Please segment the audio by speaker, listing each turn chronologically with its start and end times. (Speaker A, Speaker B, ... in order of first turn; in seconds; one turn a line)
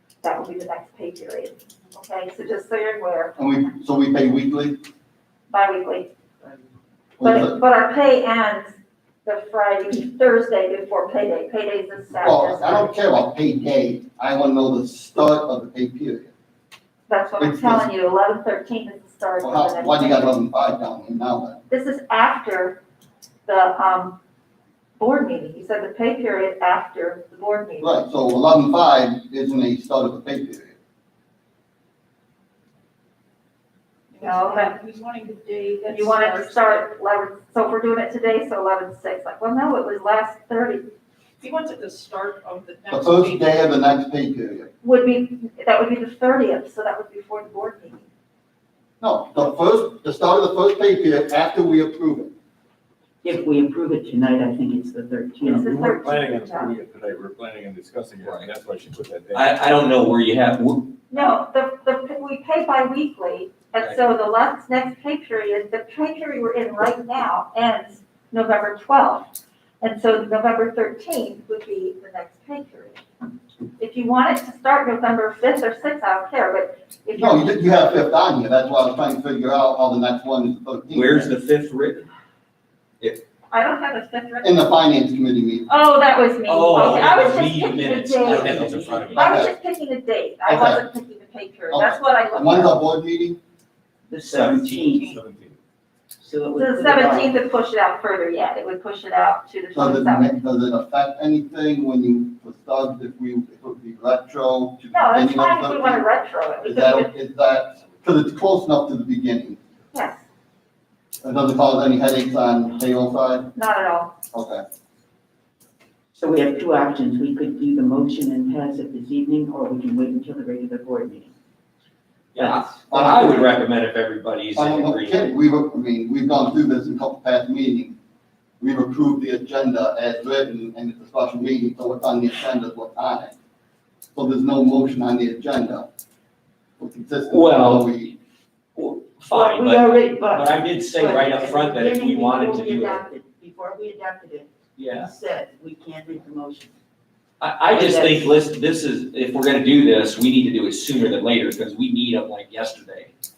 Speaker A: 0.2-3.5
Speaker B: 3.4-4.8
Speaker A: 5.5-6.1
Speaker B: 7.2-7.6
Speaker A: 7.2-8.7
Speaker A: 9.2-13.0
Speaker B: 12.2-16.3
Speaker A: 17.1-20.4
Speaker B: 17.4-17.9
Speaker B: 19.4-21.6
Speaker A: 21.7-22.8
Speaker A: 23.5-24.2
Speaker A: 25.0-28.0
Speaker B: 27.8-30.8
Speaker C: 34.1-36.8
Speaker A: 34.2-34.8
Speaker A: 35.9-40.9
Speaker C: 41.4-43.5
Speaker B: 42.9-44.7
Speaker A: 44.8-48.1
Speaker B: 49.0-52.3
Speaker D: 53.2-55.8
Speaker A: 55.4-56.7
Speaker E: 55.6-59.5
Speaker F: 58.2-58.5
Speaker F: 59.3-60.9
Speaker A: 61.1-73.0
Speaker A: 73.8-77.9
Speaker B: 77.2-81.3
Speaker F: 80.9-82.1
Speaker A: 83.5-84.7
Speaker B: 84.4-85.7
Speaker A: 85.7-92.8
Speaker F: 86.5-89.4
Speaker B: 88.3-89.5
Speaker D: 88.3-89.0
Speaker B: 90.5-90.8
Speaker B: 91.7-93.4
Speaker D: 94.1-95.2
Speaker F: 94.2-95.6
Speaker D: 96.2-97.4
Speaker A: 96.6-100.3
Speaker B: 99.7-106.1
Speaker A: 104.9-107.1
Speaker B: 106.6-109.6
Speaker A: 109.9-110.2
Speaker B: 111.2-113.5
Speaker A: 113.5-114.1
Speaker B: 114.3-114.6
Speaker D: 116.2-121.3
Speaker F: 122.3-125.3
Speaker D: 122.4-122.6
Speaker B: 122.9-123.6
Speaker B: 124.5-128.0
Speaker B: 128.6-133.3
Speaker B: 134.1-135.9
Speaker B: 136.8-138.2
Speaker F: 137.3-138.0
Speaker F: 138.8-143.0
Speaker D: 139.3-146.8
Speaker F: 144.8-145.1
Speaker F: 147.4-153.1
Speaker D: 147.7-148.4